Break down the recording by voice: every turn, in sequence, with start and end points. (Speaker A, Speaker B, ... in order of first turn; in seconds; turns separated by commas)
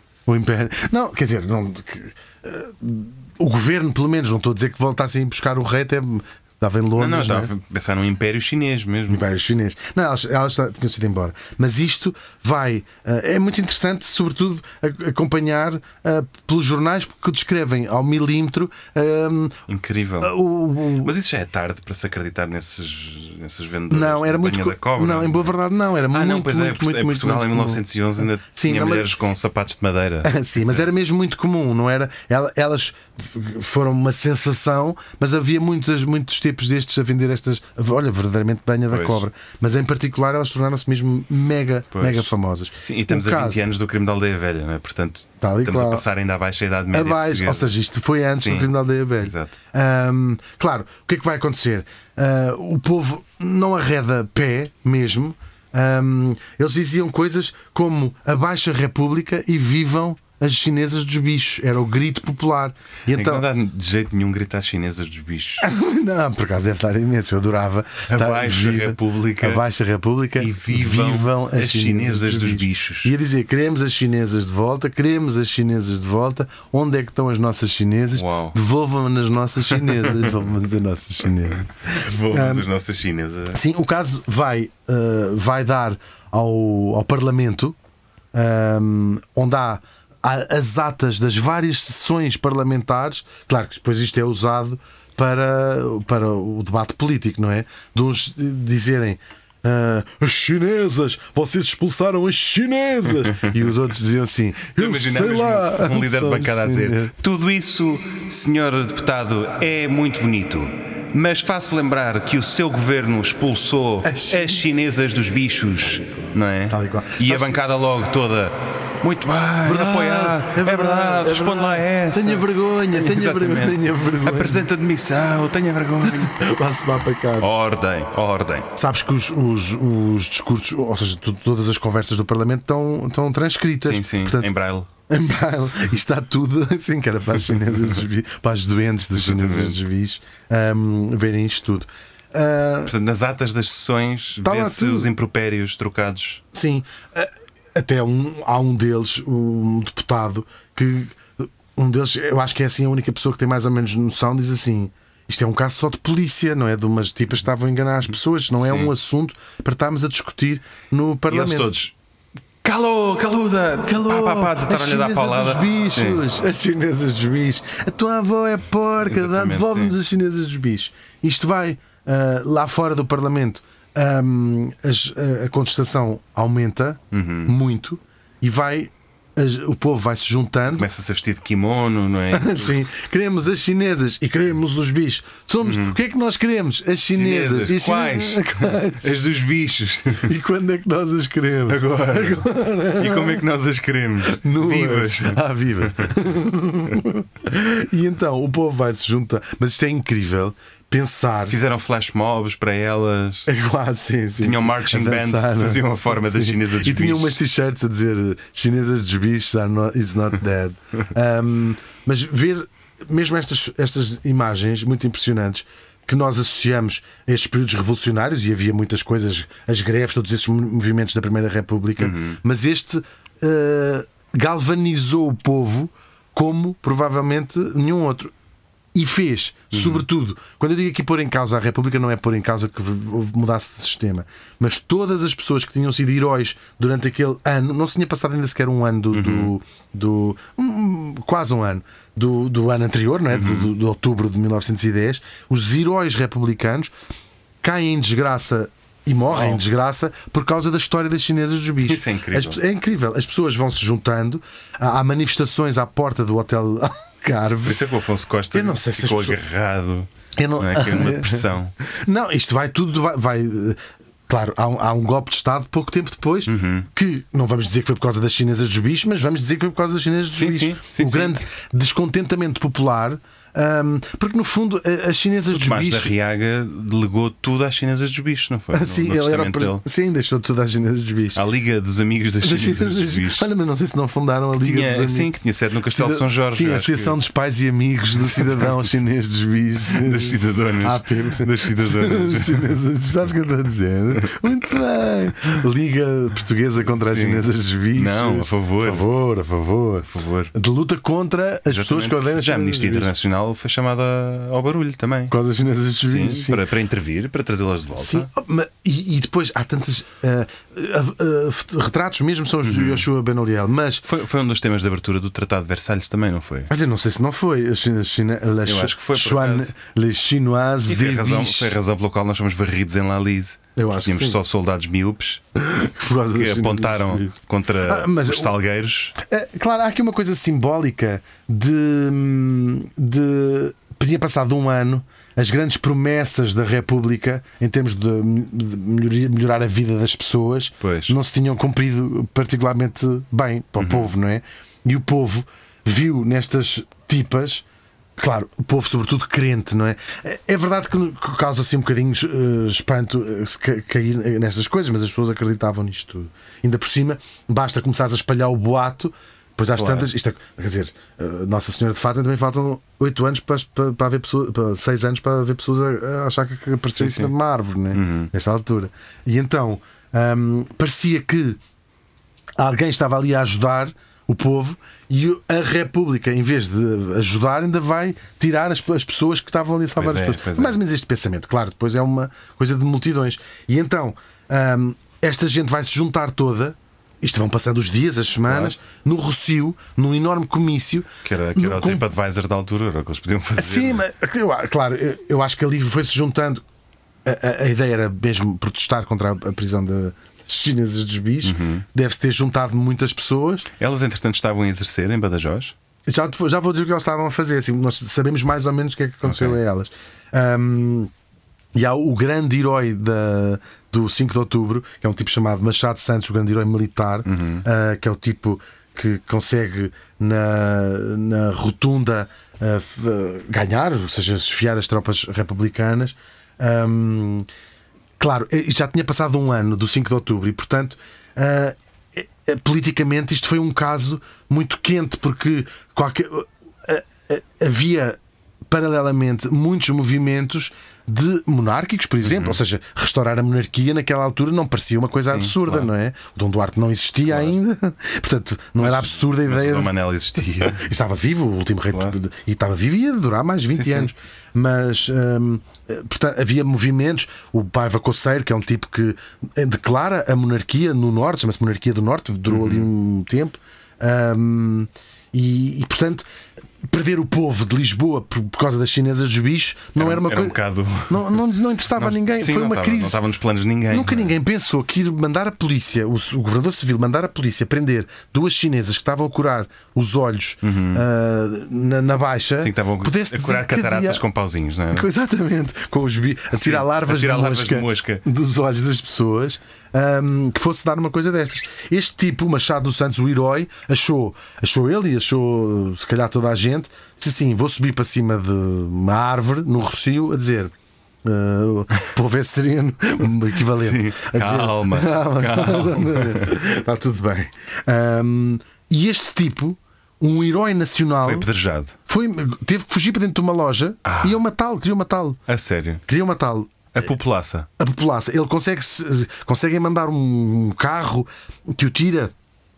Speaker A: 0.2-7.5, Speaker B: 7.0-9.2, Speaker A: 9.1-19.6, Speaker B: 19.7-25.5, Speaker A: 20.2-21.1, Speaker A: 23.9-29.1, Speaker B: 26.1-30.9, Speaker A: 30.2-43.6, Speaker B: 38.9-39.2, Speaker B: 41.9-47.7, Speaker A: 45.4-46.0, Speaker A: 46.9-63.4, Speaker B: 48.3-49.5, Speaker B: 63.1-65.7, Speaker A: 65.6-82.7, Speaker B: 68.1-69.6, Speaker B: 70.4-73.1, Speaker B: 78.1-78.6, Speaker B: 79.8-80.3, Speaker B: 81.9-83.6, Speaker A: 83.5-87.8, Speaker A: 88.3-107.1, Speaker B: 104.7-126.4, Speaker A: 114.0-114.6, Speaker A: 116.0-117.6, Speaker A: 119.6-124.7, Speaker A: 126.0-127.5, Speaker B: 127.4-128.7, Speaker A: 128.8-134.5, Speaker B: 133.8-134.9, Speaker A: 135.1-142.9, Speaker B: 139.2-139.8, Speaker B: 142.8-146.4, Speaker A: 144.4-145.1, Speaker A: 146.5-161.7, Speaker B: 158.6-158.9, Speaker B: 161.3-161.9, Speaker B: 162.6-166.2, Speaker A: 163.8-180.9, Speaker B: 169.0-170.0, Speaker B: 177.1-177.6, Speaker B: 180.7-182.8, Speaker A: 182.3-189.3, Speaker B: 185.6-186.0, Speaker B: 187.1-190.3, Speaker A: 190.2-193.4, Speaker B: 191.7-196.1, Speaker A: 194.3-201.6, Speaker B: 201.5-203.5, Speaker A: 203.5-228.3, Speaker B: 204.4-207.4, Speaker B: 222.0-222.4, Speaker A: 228.9-246.9, Speaker B: 229.7-230.0, Speaker B: 239.1-239.5, Speaker B: 243.3-243.7, Speaker A: 247.6-257.8, Speaker B: 249.3-249.6, Speaker B: 251.8-252.6, Speaker B: 257.6-261.7, Speaker A: 258.5-259.4, Speaker A: 260.4-276.1, Speaker B: 266.4-266.9, Speaker B: 270.3-271.4, Speaker B: 275.5-279.8, Speaker A: 278.7-281.4, Speaker B: 281.3-283.5, Speaker A: 282.4-285.3, Speaker B: 284.6-287.2, Speaker A: 285.8-303.1, Speaker B: 288.2-288.9, Speaker B: 289.9-292.7, Speaker B: 296.9-299.0, Speaker B: 300.1-300.5, Speaker B: 301.7-305.3, Speaker A: 305.3-306.6, Speaker B: 306.0-308.3, Speaker A: 308.0-314.0, Speaker B: 312.6-313.1, Speaker B: 314.0-316.7, Speaker A: 316.7-321.8, Speaker B: 318.6-319.7, Speaker B: 320.9-325.4, Speaker A: 323.8-324.4, Speaker A: 325.6-328.5, Speaker B: 326.3-329.1, Speaker A: 329.2-347.6, Speaker B: 340.8-341.1, Speaker B: 343.8-344.1, Speaker A: 348.2-371.6, Speaker B: 359.7-360.1, Speaker B: 367.0-367.3, Speaker B: 367.9-368.3, Speaker A: 372.6-392.1, Speaker B: 380.0-380.8, Speaker B: 388.4-388.8, Speaker B: 391.2-394.0, Speaker A: 393.6-396.6, Speaker A: 397.2-403.7, Speaker B: 401.4-401.8, Speaker B: 403.8-405.7, Speaker A: 406.1-411.1, Speaker B: 409.2-409.6, Speaker A: 411.7-427.5, Speaker B: 417.2-417.6, Speaker A: 428.2-466.2, Speaker B: 442.2-442.6, Speaker B: 445.2-445.9, Speaker B: 447.3-447.6, Speaker B: 448.8-450.9, Speaker B: 451.9-452.2, Speaker B: 453.7-454.1, Speaker B: 462.5-462.9, Speaker A: 466.8-473.2, Speaker B: 469.9-471.4, Speaker B: 471.9-474.4, Speaker A: 473.9-484.2, Speaker B: 480.6-481.0, Speaker B: 482.6-485.1, Speaker A: 484.9-500.7, Speaker B: 486.5-488.2, Speaker A: 501.2-511.5, Speaker B: 503.7-506.5, Speaker B: 511.2-511.9, Speaker A: 512.1-515.4, Speaker B: 514.0-514.4, Speaker B: 515.5-516.0, Speaker A: 516.1-516.7, Speaker B: 516.9-517.7, Speaker A: 517.8-522.3